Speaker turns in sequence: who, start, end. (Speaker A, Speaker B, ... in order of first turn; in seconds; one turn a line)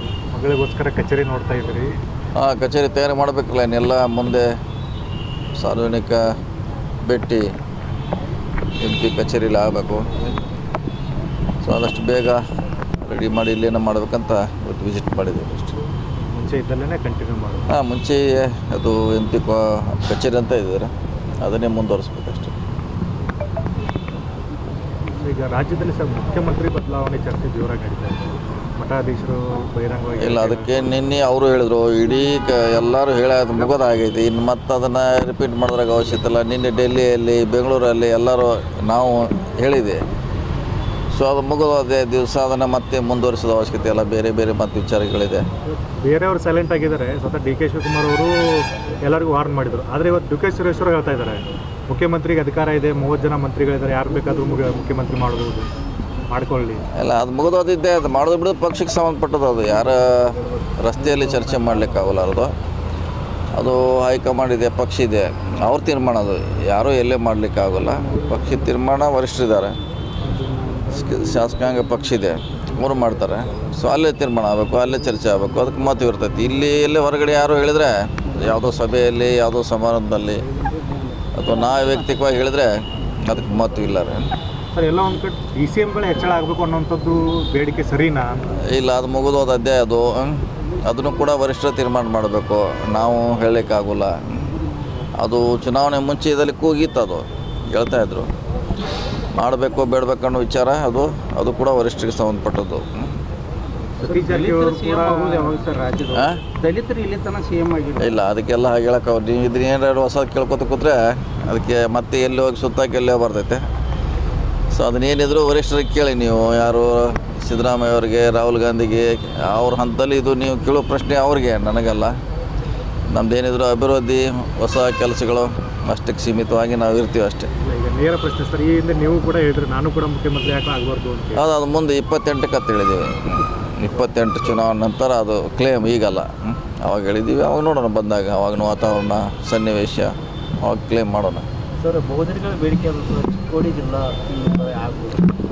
Speaker A: 0.3-1.9
Speaker B: 2.4-4.5
Speaker B: 5.6-6.3
Speaker B: 7.0-7.4
Speaker B: 8.8-10.0
Speaker B: 11.6-12.4
Speaker B: 13.0-15.8
Speaker A: 16.3-17.7
Speaker B: 17.7-22.5
Speaker A: 25.1-30.9
Speaker B: 30.2-40.0
Speaker B: 41.1-45.4
Speaker A: 45.9-55.7
Speaker A: 56.3-56.8
Speaker B: 57.0-62.5
Speaker C: 61.1-62.0
Speaker B: 63.5-69.8
Speaker B: 70.9-80.5
Speaker B: 81.3-84.3
Speaker A: 84.7-88.4
Speaker B: 88.7-94.5
Speaker B: 95.2-98.3
Speaker B: 99.4-103.1
Speaker C: 104.0-108.2
Speaker A: 104.0-105.6
Speaker B: 106.1-106.4
Speaker B: 108.0-113.6
Speaker B: 114.7-122.1
Speaker B: 123.1-127.5
Speaker A: 127.6-131.4
Speaker B: 131.3-141.4
Speaker C: 141.8-145.3